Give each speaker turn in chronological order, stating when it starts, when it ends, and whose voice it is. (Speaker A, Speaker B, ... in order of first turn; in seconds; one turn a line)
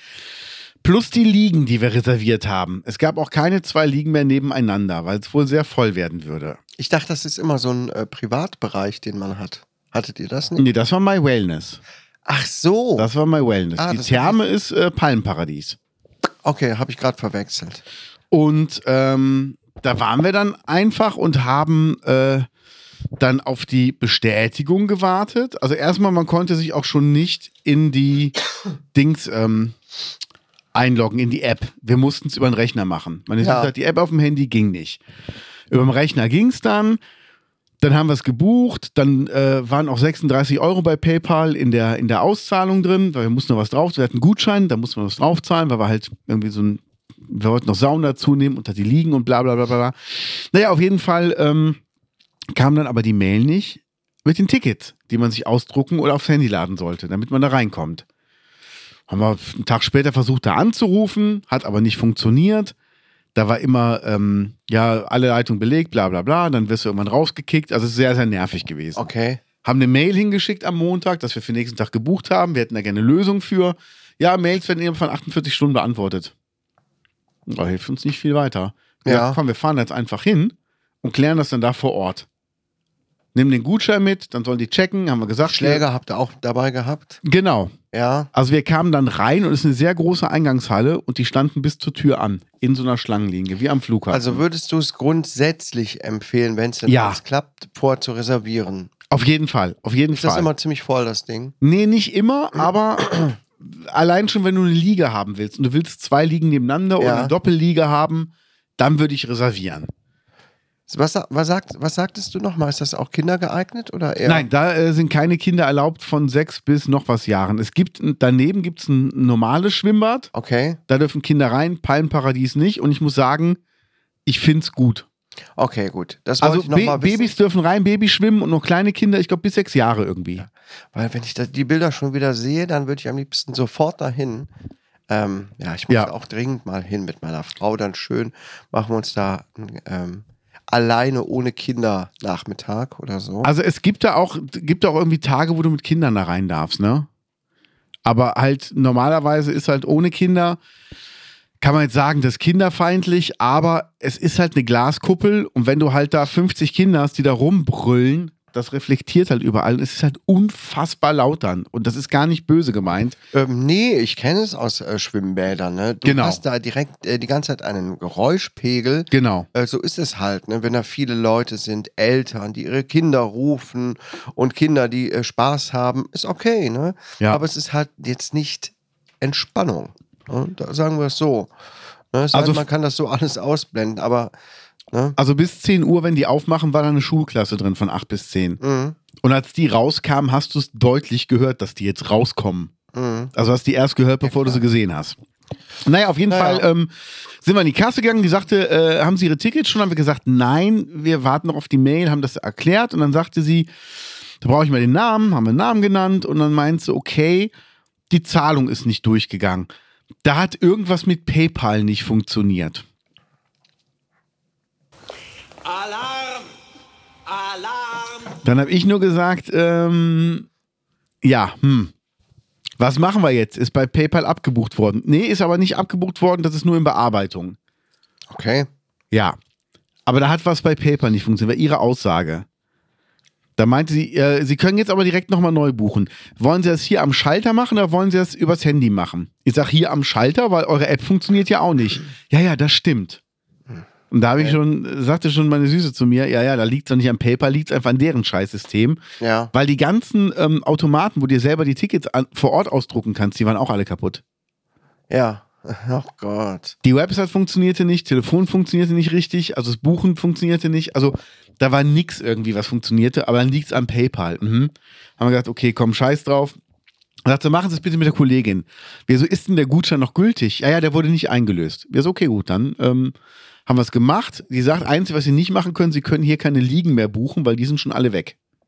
Speaker A: 0.8-6.6
Speaker B: 6.8-10.6
Speaker A: 10.6-11.8
Speaker B: 12.2-13.1
Speaker A: 13.0-15.8
Speaker B: 13.8-14.4
Speaker B: 16.4-17.8
Speaker A: 18.3-22.5
Speaker A: 23.2-28.4
Speaker A: 28.9-29.7
Speaker A: 30.7-35.0
Speaker B: 33.4-33.7
Speaker A: 35.7-37.0
Speaker A: 37.8-51.8
Speaker A: 52.5-58.0
Speaker A: 59.1-62.7
Speaker A: 63.3-69.0
Speaker B: 69.0-69.4
Speaker A: 69.6-76.3
Speaker A: 77.5-82.3
Speaker B: 79.0-79.4
Speaker A: 83.3-85.8
Speaker B: 85.4-87.2
Speaker A: 87.2-87.7
Speaker B: 87.9-88.3
Speaker A: 88.3-94.4
Speaker B: 94.1-98.9
Speaker A: 96.8-97.2
Speaker A: 99.1-100.5
Speaker B: 100.1-101.5
Speaker A: 101.6-109.9
Speaker B: 103.1-103.3
Speaker B: 107.0-107.3
Speaker B: 110.9-114.4
Speaker A: 114.2-120.3
Speaker B: 120.3-120.8
Speaker A: 120.9-123.6
Speaker A: 124.2-125.0
Speaker B: 125.6-127.3
Speaker A: 126.4-130.4
Speaker B: 130.4-134.5
Speaker B: 135.1-143.5
Speaker A: 143.4-147.1
Speaker A: 148.0-150.6
Speaker A: 151.6-163.2
Speaker B: 163.3-181.5
Speaker A: 166.0-166.4
Speaker A: 169.1-169.5
Speaker B: 182.1-184.3
Speaker A: 182.3-182.6
Speaker B: 184.9-185.2
Speaker A: 185.2-188.6
Speaker B: 188.6-189.0
Speaker A: 189.2-192.7
Speaker B: 192.9-193.3
Speaker A: 193.3-195.2
Speaker B: 194.2-194.6
Speaker A: 195.8-203.7
Speaker B: 196.3-196.7
Speaker A: 204.4-207.5
Speaker A: 208.1-209.7
Speaker A: 210.2-212.8
Speaker C: 215.6-216.5
Speaker C: 217.2-218.4
Speaker A: 218.4-220.5
Speaker A: 221.2-221.9
Speaker A: 222.8-227.6
Speaker B: 228.3-228.7
Speaker A: 229.1-229.4
Speaker A: 230.1-232.4
Speaker A: 233.6-243.2
Speaker A: 244.1-249.0
Speaker B: 249.2-249.5
Speaker A: 249.5-254.2
Speaker B: 255.1-256.8
Speaker A: 256.8-266.6
Speaker A: 267.2-273.1
Speaker A: 273.7-278.3